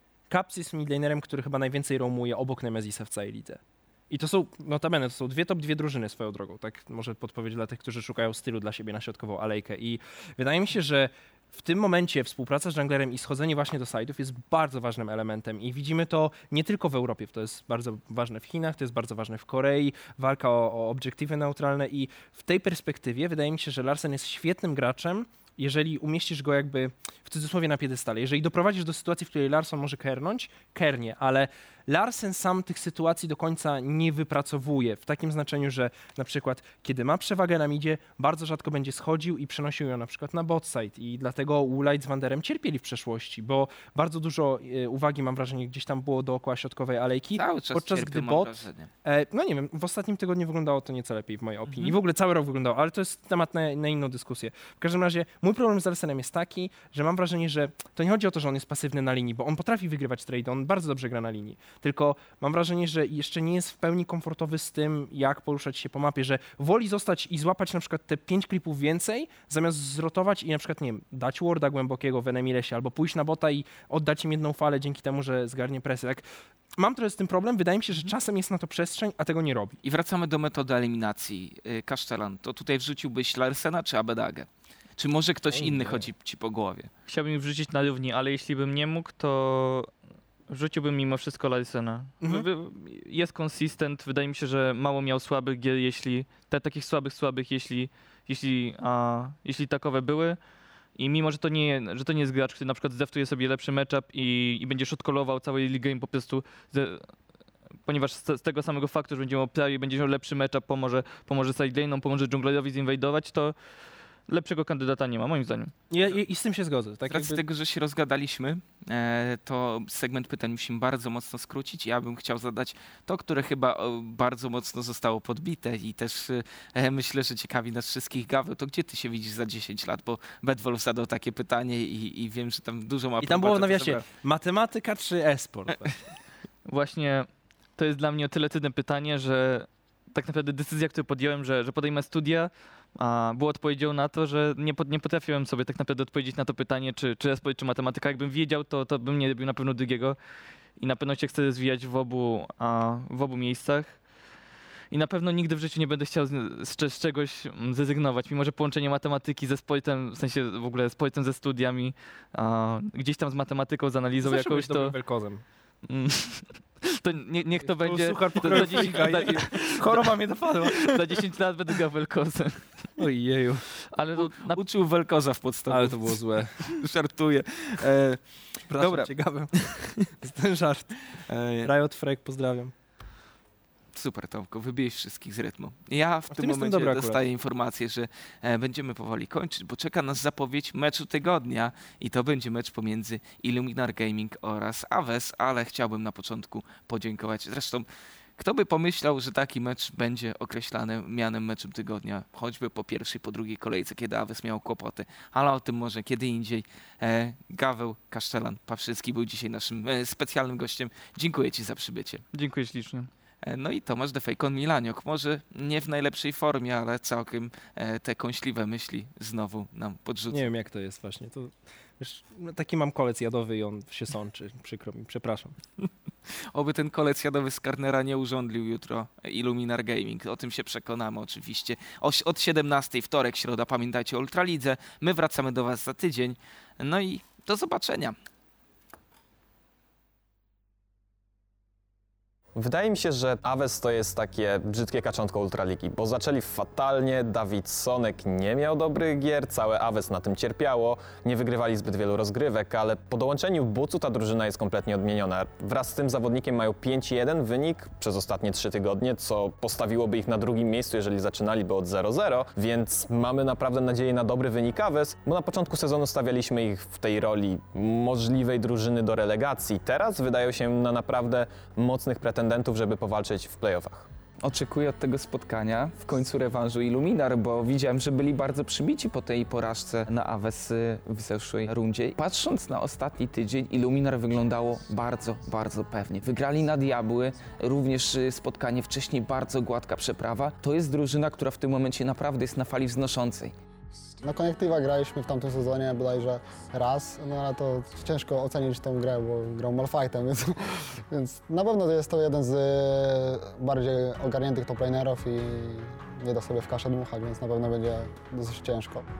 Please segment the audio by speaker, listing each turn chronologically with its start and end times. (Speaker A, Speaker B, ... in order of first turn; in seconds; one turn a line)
Speaker A: 0.3-76.2
Speaker B: 47.4-48.9
Speaker A: 76.8-79.8
Speaker B: 79.8-86.9
Speaker A: 85.5-86.1
Speaker C: 87.1-89.9
Speaker C: 90.5-100.4
Speaker A: 92.2-92.5
Speaker C: 101.0-107.1
Speaker C: 107.8-113.5
Speaker C: 114.3-115.7
Speaker A: 115.9-117.4
Speaker B: 117.1-134.0
Speaker A: 133.2-136.0
Speaker C: 136.7-150.2
Speaker C: 150.8-154.0
Speaker C: 154.9-164.9
Speaker A: 164.2-165.4
Speaker C: 165.8-170.0
Speaker A: 167.7-171.2
Speaker C: 170.7-172.8
Speaker A: 173.0-173.7
Speaker C: 173.9-174.6
Speaker B: 174.2-179.9
Speaker A: 175.7-176.5
Speaker A: 178.7-180.9
Speaker B: 181.3-181.7
Speaker A: 181.6-182.7
Speaker B: 183.9-197.8
Speaker A: 186.3-187.2
Speaker B: 198.4-212.2
Speaker C: 212.3-213.1
Speaker B: 213.4-220.5
Speaker A: 220.3-225.6
Speaker B: 226.5-238.2
Speaker D: 242.6-274.1
Speaker E: 274.4-293.5
Speaker F: 294.2-309.1